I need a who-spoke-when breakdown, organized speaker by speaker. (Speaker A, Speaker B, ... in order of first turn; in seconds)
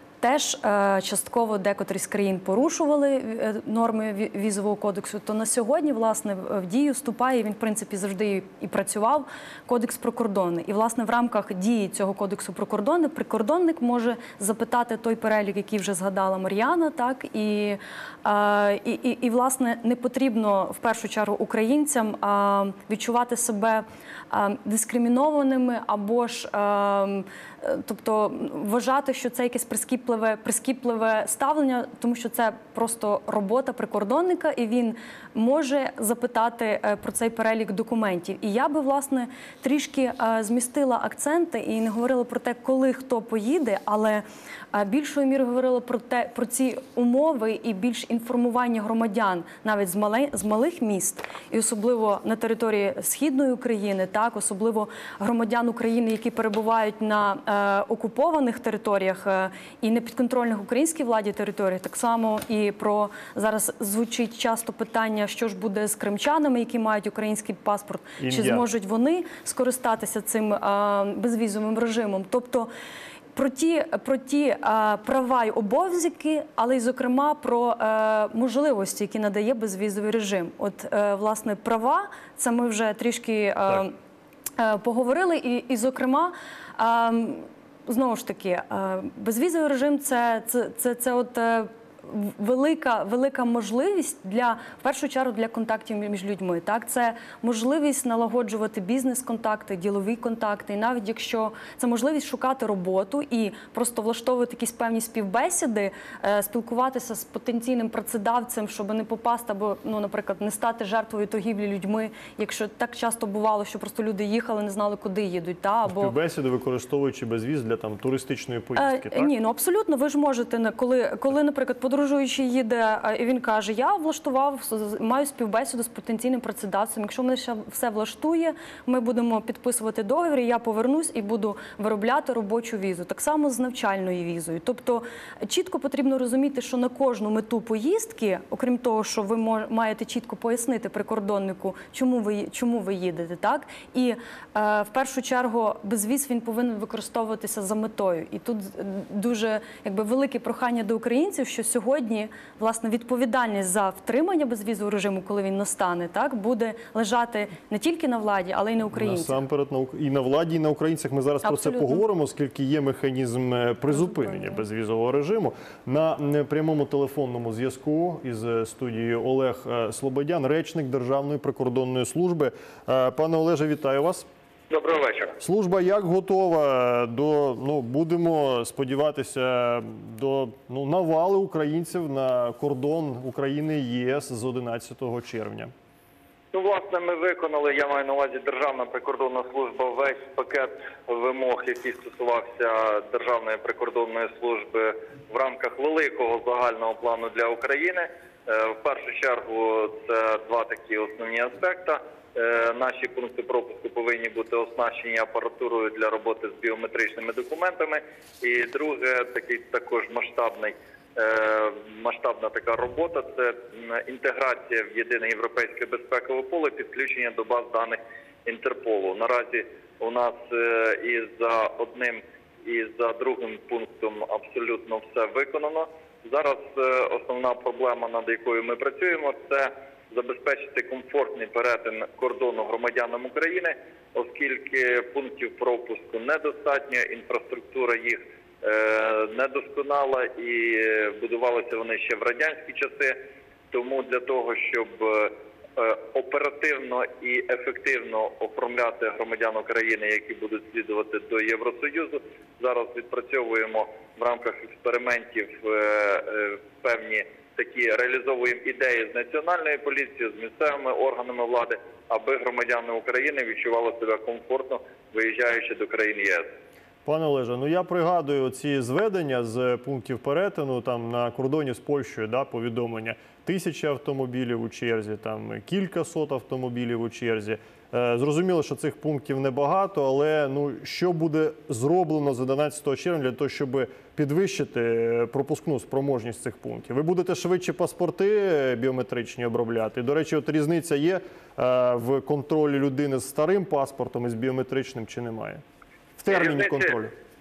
Speaker A: 0.2-72.7, 73.3-83.9, 84.6-116.1, 118.8-159.4, 161.4-162.0
Speaker B: 68.2-68.6, 115.8-119.3, 158.9-174.3, 175.4-185.7, 267.0-295.6, 296.2-297.1
Speaker C: 174.7-175.4, 186.5-243.2, 243.7-266.5, 296.3-296.9